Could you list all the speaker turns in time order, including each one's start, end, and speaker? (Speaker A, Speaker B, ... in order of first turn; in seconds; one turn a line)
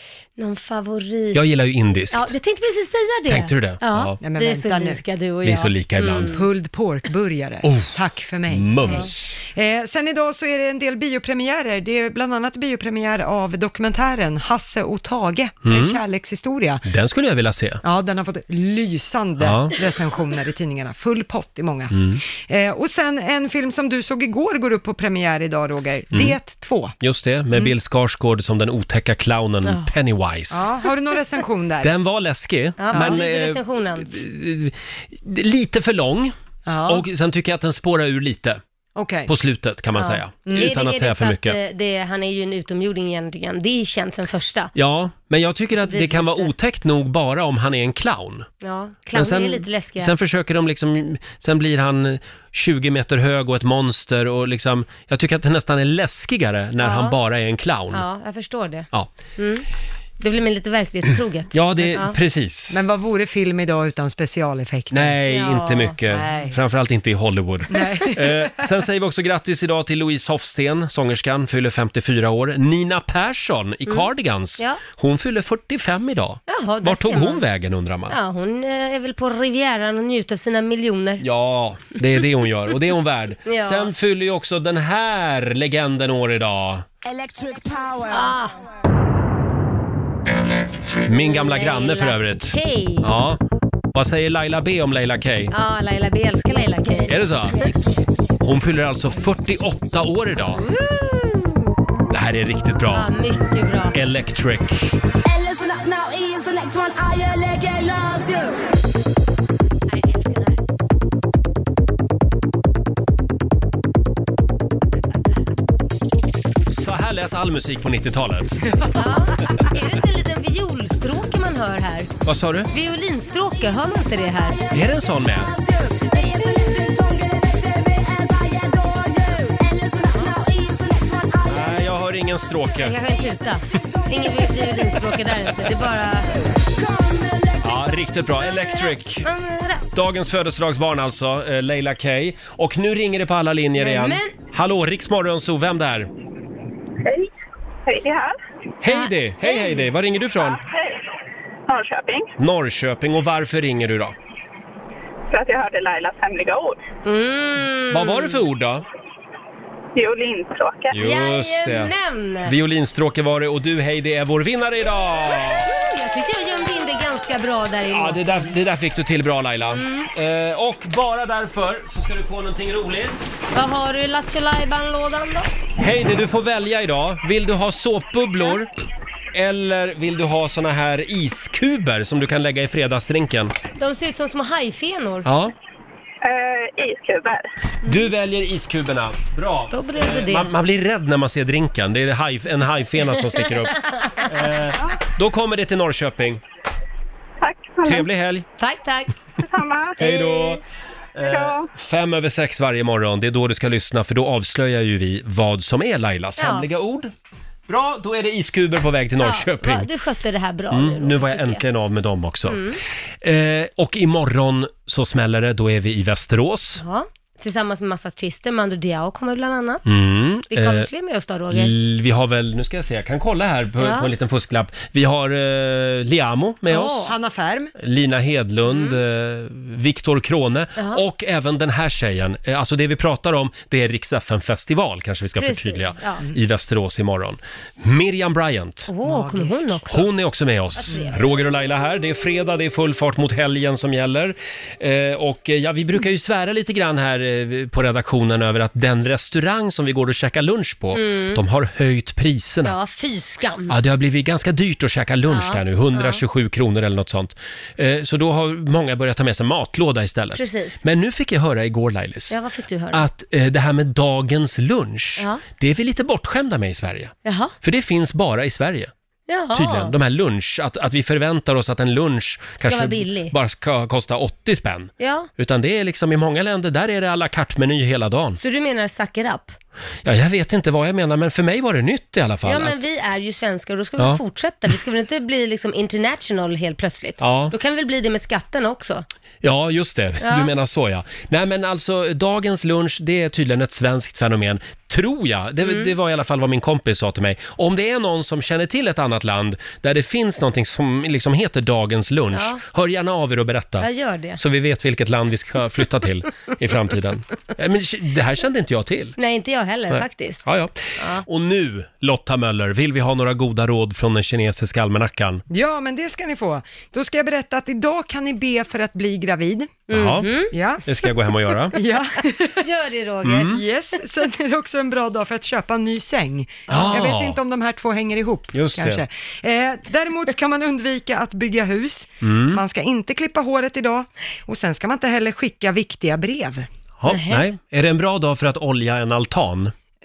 Speaker A: 0.4-1.4
Speaker B: 1.3-2.3
Speaker A: 2.1-6.4
Speaker B: 3.3-4.2
Speaker C: 4.2-5.0
Speaker B: 5.4-6.4
Speaker C: 6.1-16.8
Speaker B: 7.6-7.9
Speaker B: 8.5-9.4
Speaker B: 15.6-16.0
Speaker B: 16.8-17.8
Speaker C: 17.8-26.9
Speaker B: 19.4-19.7
Speaker B: 21.9-22.2
Speaker B: 27.0-30.7
Speaker A: 29.6-29.9
Speaker C: 30.5-31.9
Speaker B: 31.8-36.3
Speaker A: 32.8-34.1
Speaker C: 32.9-33.2
Speaker C: 36.6-37.0
Speaker B: 36.9-38.6
Speaker C: 39.0-39.3
Speaker B: 39.3-41.6
Speaker A: 39.9-44.7
Speaker C: 40.5-40.7
Speaker B: 44.7-48.5
Speaker A: 45.7-46.5
Speaker A: 48.6-50.1
Speaker B: 49.1-58.0
Speaker A: 56.8-57.2
Speaker A: 57.9-59.6
Speaker A: 60.2-62.1
Speaker B: 61.5-62.8
Speaker C: 62.7-65.2
Speaker B: 64.9-78.2
Speaker A: 65.3-66.0
Speaker C: 66.1-66.6
Speaker C: 67.7-68.7
Speaker A: 73.9-74.8
Speaker A: 76.5-77.4
Speaker A: 78.1-81.2
Speaker B: 81.2-86.9
Speaker A: 83.5-83.9
Speaker D: 87.1-88.4
Speaker A: 88.1-88.5
Speaker B: 91.0-93.4
Speaker A: 91.1-93.1
Speaker B: 93.9-95.5
Speaker A: 95.5-98.0
Speaker B: 97.1-97.6
Speaker B: 98.4-100.6
Speaker A: 100.5-101.7
Speaker B: 102.1-103.1
Speaker A: 102.9-104.0
Speaker B: 103.9-104.9
Speaker D: 105.3-108.5
Speaker A: 109.9-110.6
Speaker B: 116.7-118.7
Speaker C: 118.8-119.2
Speaker A: 118.9-122.1
Speaker B: 122.2-122.7
Speaker A: 122.7-124.7
Speaker B: 124.7-125.5
Speaker D: 125.4-131.8
Speaker A: 126.2-126.9
Speaker B: 131.4-133.0
Speaker A: 132.8-136.5
Speaker D: 134.0-135.0
Speaker D: 136.6-137.7
Speaker B: 137.6-139.3
Speaker A: 138.4-139.9
Speaker B: 139.9-146.1
Speaker A: 143.8-144.3
Speaker E: 147.0-147.3
Speaker E: 147.8-148.3
Speaker B: 148.8-150.6
Speaker A: 148.8-149.9
Speaker E: 150.4-151.0
Speaker E: 151.7-152.3
Speaker B: 152.4-154.1
Speaker E: 155.3-156.8
Speaker A: 157.0-158.4
Speaker B: 157.9-158.8
Speaker E: 159.9-161.0
Speaker B: 160.9-161.9
Speaker A: 160.9-162.5
Speaker B: 162.4-165.7
Speaker A: 165.5-168.5
Speaker B: 167.9-173.3
Speaker A: 169.7-170.1
Speaker A: 173.5-175.5
Speaker B: 175.8-178.7
Speaker B: 179.3-183.5
Speaker A: 183.8-185.3
Speaker B: 185.2-185.5
Speaker E: 186.2-187.4
Speaker B: 187.8-196.4
Speaker A: 189.7-190.5
Speaker A: 193.6-194.3
Speaker E: 197.4-198.1
Speaker B: 197.8-198.4
Speaker A: 198.6-199.1
Speaker E: 199.4-200.6
Speaker B: 200.0-200.6
Speaker B: 201.1-207.1
Speaker E: 201.2-201.7
Speaker A: 206.4-206.7
Speaker B: 207.7-209.9
Speaker A: 209.2-211.6
Speaker B: 210.7-212.6
Speaker A: 212.5-212.8
Speaker B: 213.2-216.8
Speaker A: 216.8-219.8
Speaker B: 219.8-220.9
Speaker A: 220.5-221.7
Speaker B: 221.5-227.1
Speaker A: 223.8-224.1
Speaker A: 226.7-227.1
Speaker C: 226.8-227.7
Speaker B: 227.8-238.9
Speaker A: 228.7-229.0
Speaker A: 230.8-231.0
Speaker A: 235.4-236.2
Speaker A: 238.9-240.1
Speaker C: 239.0-239.8
Speaker B: 239.9-252.7
Speaker A: 240.8-241.2
Speaker A: 250.9-251.4
Speaker A: 252.6-253.8
Speaker B: 253.7-262.4
Speaker A: 255.3-256.2
Speaker A: 260.3-260.8
Speaker A: 262.3-263.0
Speaker B: 262.9-268.9
Speaker A: 267.2-267.5
Speaker A: 269.3-269.9
Speaker B: 269.5-278.4
Speaker A: 272.6-273.3
Speaker A: 275.0-275.3
Speaker A: 278.4-279.5
Speaker B: 280.0-282.8
Speaker A: 282.4-289.1
Speaker B: 287.2-287.5
Speaker B: 289.4-309.1
Speaker A: 290.2-290.5
Speaker A: 295.6-295.9
Speaker A: 302.3-302.6
Speaker A: 303.8-304.4
Speaker A: 309.2-310.4
Speaker B: 309.9-315.4
Speaker A: 311.0-311.2
Speaker C: 315.5-319.8
Speaker B: 319.9-321.8
Speaker A: 319.9-320.5
Speaker C: 320.5-320.9
Speaker C: 321.7-322.7
Speaker A: 322.6-323.6
Speaker B: 323.2-323.6
Speaker C: 323.4-336.7
Speaker B: 326.7-327.4
Speaker B: 328.5-329.0
Speaker B: 332.2-332.6
Speaker B: 337.0-339.7
Speaker A: 337.1-337.4